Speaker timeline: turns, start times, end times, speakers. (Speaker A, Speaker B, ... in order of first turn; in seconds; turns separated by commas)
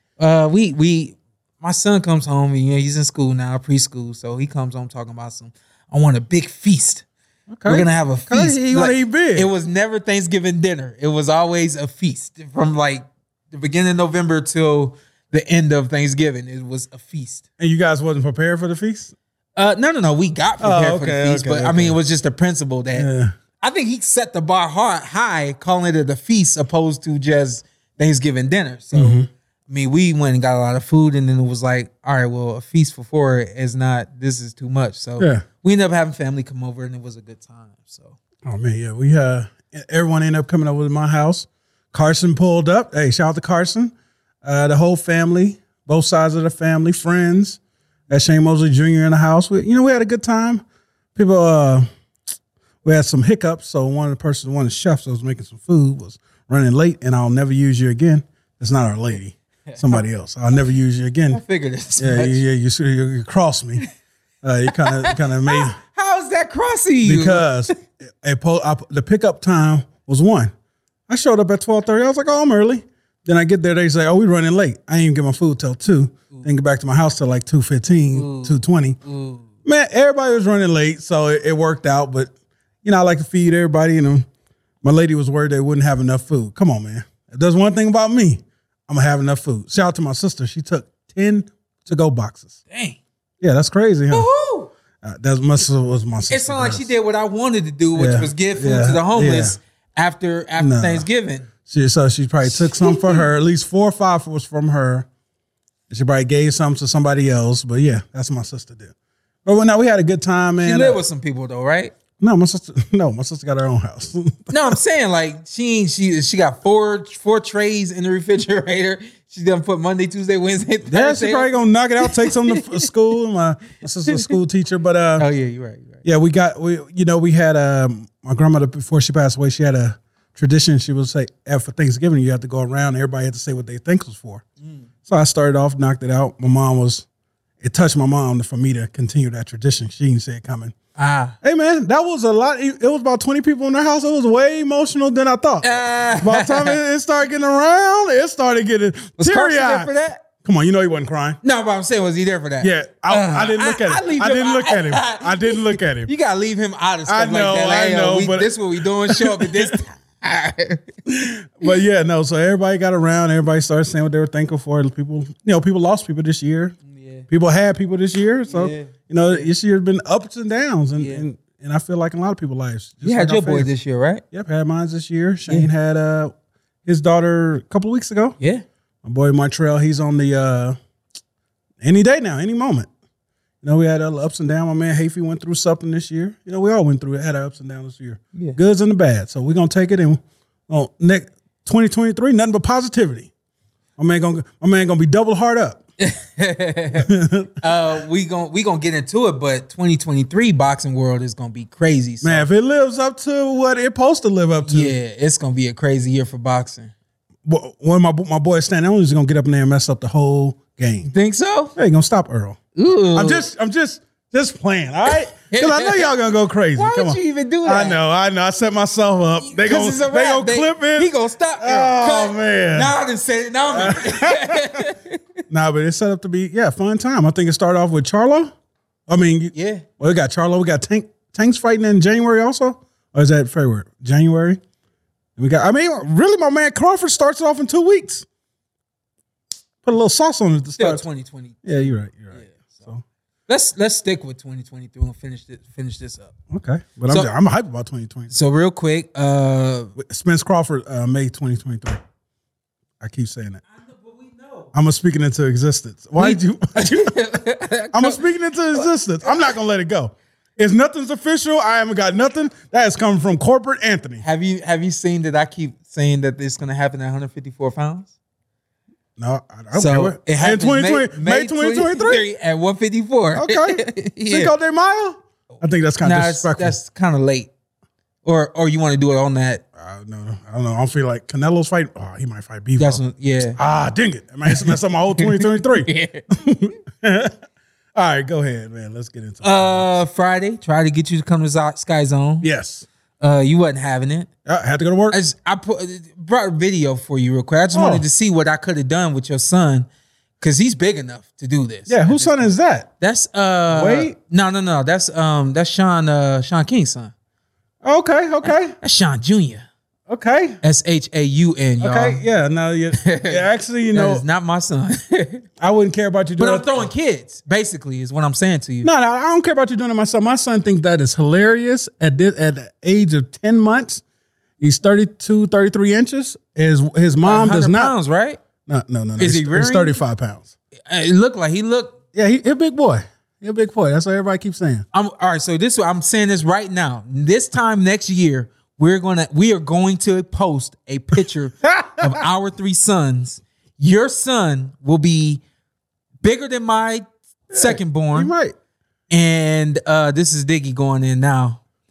Speaker A: 0.2-7.0, Speaker B: 7.5-9.5, Speaker A: 7.7-17.4, Speaker B: 17.6-19.1, Speaker A: 19.6-23.1, Speaker B: 20.6-22.0, Speaker B: 22.9-23.3, Speaker A: 23.6-38.2, Speaker B: 28.9-29.3, Speaker B: 35.2-35.5, Speaker B: 38.5-50.6, Speaker B: 51.1-51.9, Speaker B: 52.8-61.4, Speaker A: 59.7-60.0, Speaker A: 61.3-62.4, Speaker B: 62.0-63.8, Speaker B: 64.4-65.8, Speaker A: 64.8-67.7, Speaker B: 67.0-70.5, Speaker B: 71.1-79.0, Speaker A: 78.1-79.5, Speaker B: 79.7-82.3, Speaker B: 82.8-84.3, Speaker B: 84.8-92.6, Speaker A: 92.7-93.0, Speaker B: 93.4-94.3, Speaker A: 94.1-94.7, Speaker B: 95.0-96.9, Speaker A: 96.3-101.5, Speaker B: 98.0-99.6, Speaker B: 100.6-101.1, Speaker B: 101.7-105.1, Speaker A: 102.5-103.3, Speaker B: 105.9-108.9, Speaker B: 109.5-111.0, Speaker A: 110.6-111.9, Speaker B: 112.2-114.8, Speaker A: 114.5-121.5, Speaker B: 120.9-125.3, Speaker A: 122.0-122.6, Speaker A: 124.1-124.3, Speaker A: 125.2-126.0, Speaker B: 126.0-134.4, Speaker B: 135.1-137.1, Speaker B: 137.6-140.7, Speaker A: 141.0-141.4, Speaker B: 141.4-151.4, Speaker A: 145.6-146.8, Speaker A: 149.2-150.2, Speaker A: 151.4-160.9, Speaker B: 152.6-156.1, Speaker B: 157.1-159.8, Speaker B: 161.1-166.8, Speaker A: 166.9-167.3, Speaker B: 167.3-173.7, Speaker A: 168.5-169.5, Speaker A: 171.0-171.2, Speaker A: 173.0-174.2, Speaker B: 174.3-176.3, Speaker B: 176.9-178.4, Speaker B: 179.0-180.8, Speaker B: 181.8-182.9, Speaker B: 183.6-193.3, Speaker B: 194.0-195.8, Speaker A: 196.0-197.1, Speaker B: 197.0-197.5, Speaker A: 197.6-202.5, Speaker B: 202.2-204.9, Speaker A: 204.7-206.9, Speaker B: 207.4-211.1, Speaker A: 211.1-211.8, Speaker B: 211.8-212.6, Speaker A: 212.8-213.5, Speaker B: 213.1-222.9, Speaker A: 215.1-216.1, Speaker A: 216.8-218.0, Speaker A: 219.5-225.2, Speaker B: 223.7-224.8, Speaker B: 225.5-228.5, Speaker B: 229.1-234.6, Speaker A: 229.5-229.8, Speaker B: 235.4-238.3, Speaker B: 239.8-241.1, Speaker A: 240.8-242.9, Speaker B: 241.7-243.0, Speaker A: 243.5-246.3, Speaker B: 246.5-248.3, Speaker A: 248.3-249.9, Speaker B: 250.0-252.0, Speaker B: 253.0-253.6, Speaker A: 253.8-254.7, Speaker B: 254.7-257.2, Speaker A: 256.2-258.2, Speaker B: 257.9-264.2, Speaker A: 258.7-259.4, Speaker A: 264.2-268.1, Speaker B: 269.2-272.2, Speaker A: 269.8-274.5, Speaker B: 273.4-276.8, Speaker A: 276.0-277.5, Speaker A: 278.2-279.6, Speaker B: 279.8-283.0, Speaker A: 282.8-283.6, Speaker B: 283.6-287.4, Speaker A: 284.5-286.2, Speaker B: 287.9-290.0, Speaker A: 289.4-292.5, Speaker B: 292.4-292.9, Speaker A: 293.2-294.3, Speaker B: 294.5-295.2, Speaker A: 295.1-299.9, Speaker B: 297.7-298.1, Speaker A: 300.4-302.5, Speaker B: 301.9-302.9, Speaker A: 303.0-307.1, Speaker B: 303.7-304.1, Speaker B: 307.8-308.8, Speaker A: 308.4-309.6, Speaker B: 310.1-310.6, Speaker A: 310.6-312.2, Speaker B: 311.8-314.2, Speaker A: 313.0-315.4, Speaker B: 315.6-316.9, Speaker A: 316.4-318.9, Speaker B: 318.8-324.0, Speaker B: 324.6-327.9, Speaker A: 327.2-328.4, Speaker B: 328.7-330.5, Speaker A: 329.2-330.0, Speaker A: 330.9-332.0, Speaker B: 332.1-334.9, Speaker A: 334.9-345.4, Speaker B: 341.8-342.1, Speaker A: 346.2-348.3, Speaker B: 347.5-348.6, Speaker A: 349.1-351.6